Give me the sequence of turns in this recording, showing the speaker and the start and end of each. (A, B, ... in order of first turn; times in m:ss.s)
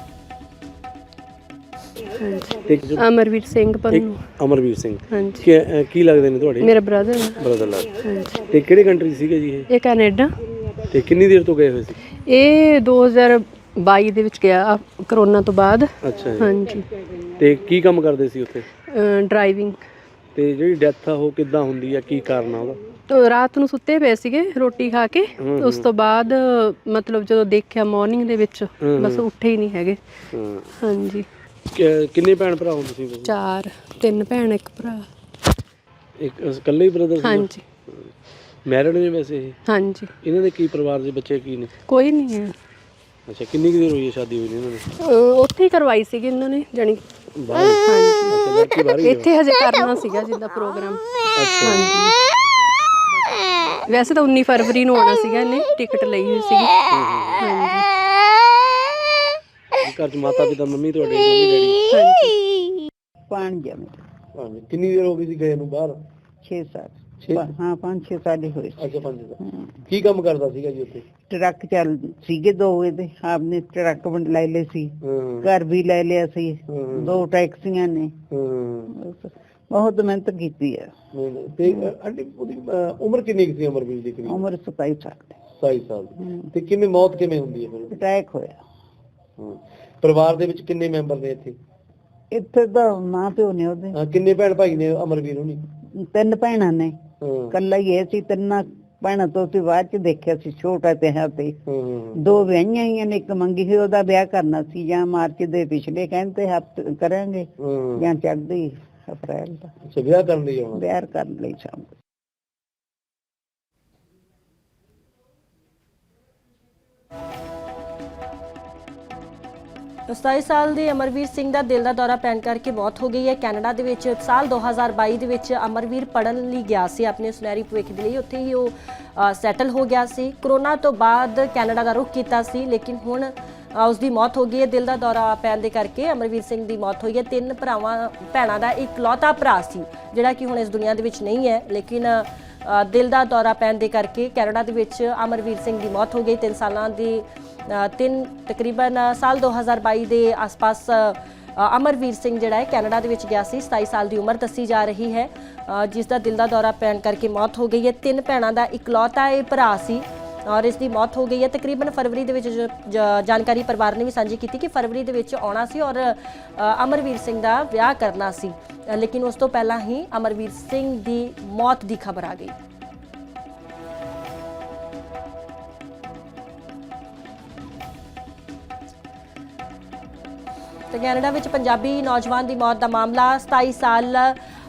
0:02.1-0:04.3 A
0:02.6-0:03.0 B
0:03.9-0:06.7 B
0:05.1-0:05.5 A
0:06.6-0:08.5 A
0:07.4-0:09.7 B
0:09.7-0:10.4 A
0:10.9-0:12.1 B
0:12.2-0:16.9 A
0:16.0-0:16.5 B
0:17.4-0:18.7 B
0:18.9-0:19.8 A
0:20.4-0:22.8 B
0:23.1-0:30.0 A
0:25.4-0:25.9 B
0:28.8-0:29.2 B
0:30.3-0:30.7 B
0:30.8-0:31.3 A
0:31.7-0:33.3 B
0:33.2-0:35.1 A
0:36.2-0:38.1 B
0:37.2-0:37.6 A
0:38.6-0:39.6 B
0:39.7-0:40.1 A
0:40.2-0:41.7 B
0:41.9-0:42.6 A
0:43.3-0:44.9 B
0:45.0-0:47.0 A
0:47.4-0:49.3 B
0:47.6-0:48.4 A
0:49.0-0:52.2 A
0:51.4-0:52.0 B
0:53.8-0:56.7 A
0:56.9-0:57.4 B
0:57.4-0:57.9 A
0:59.8-1:01.8 B
1:01.9-1:02.4 A
1:03.3-1:04.0 C
1:04.4-1:06.0 B
1:06.4-1:09.7 C
1:07.2-1:07.5 B
1:08.8-1:11.1 B
1:11.3-1:18.2 C
1:15.0-1:15.5 B
1:16.7-1:17.2 B
1:18.3-1:18.9 B
1:18.9-1:20.9 C
1:21.1-1:24.5 B
1:24.3-1:25.4 C
1:25.6-1:28.0 B
1:27.9-1:28.6 C
1:29.4-1:31.6 B
1:32.3-1:34.0 C
1:33.9-1:35.7 B
1:35.9-1:37.0 C
1:37.2-1:37.6 B
1:37.5-1:41.6 C
1:41.7-1:42.2 B
1:42.2-1:49.7 C
1:47.6-1:48.1 B
1:49.8-1:50.8 B
1:50.8-1:51.9 C
2:00.1-2:52.6 D
3:00.9-3:04.4 D